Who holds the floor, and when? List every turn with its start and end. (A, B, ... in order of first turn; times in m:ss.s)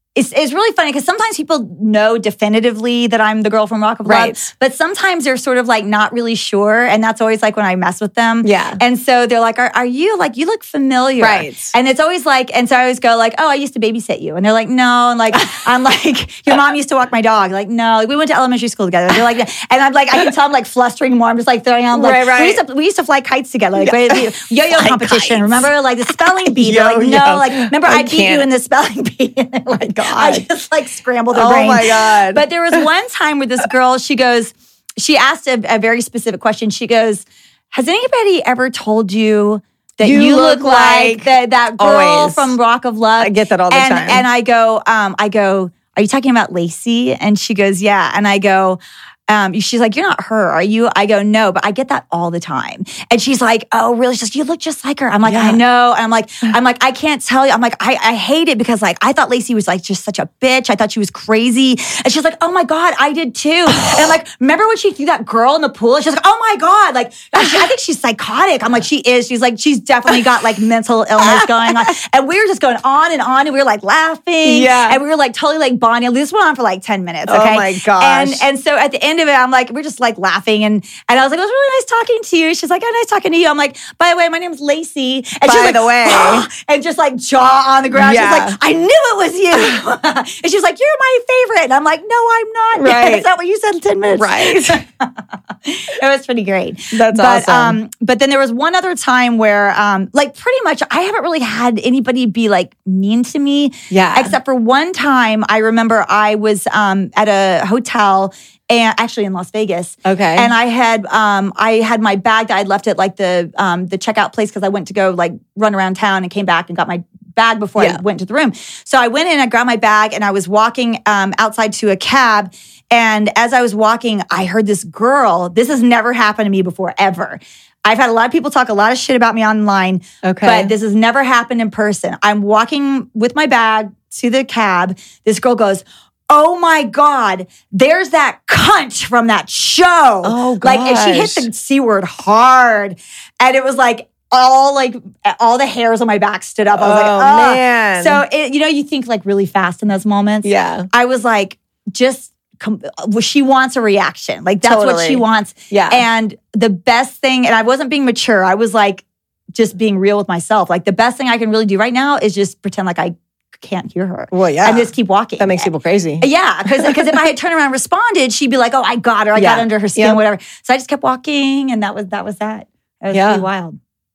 0:00.2-1:35.1 A
0:04.1-0:04.4 B
0:08.4-0:08.8 B
0:11.2-0:11.7 B
0:21.9-0:22.6 B
0:23.8-0:28.5 B
0:29.7-0:30.4 B
0:31.3-0:32.8 B
0:40.0-0:42.6 B
0:43.2-0:44.2 B
0:55.2-0:55.6 B
1:03.8-1:04.1 B
1:07.4-1:07.7 B
1:11.2-1:11.9 B
1:14.4-1:15.0 B
1:17.3-1:18.4 B
1:25.4-1:26.5 B
1:28.0-1:28.6 B
1:32.8-1:33.3 B
1:34.2-1:34.8 B
1:35.6-2:39.0 A
1:36.9-1:37.8 B
1:43.9-1:44.4 B
1:50.0-1:50.5 B
2:10.2-2:10.7 B
2:20.2-2:21.5 B
2:26.8-2:28.2 B
2:30.4-2:30.9 B
2:34.6-2:36.0 B
2:39.6-2:45.7 A
2:44.3-2:47.0 B
2:46.2-2:53.8 A
2:49.4-2:50.2 B
2:53.1-2:53.4 B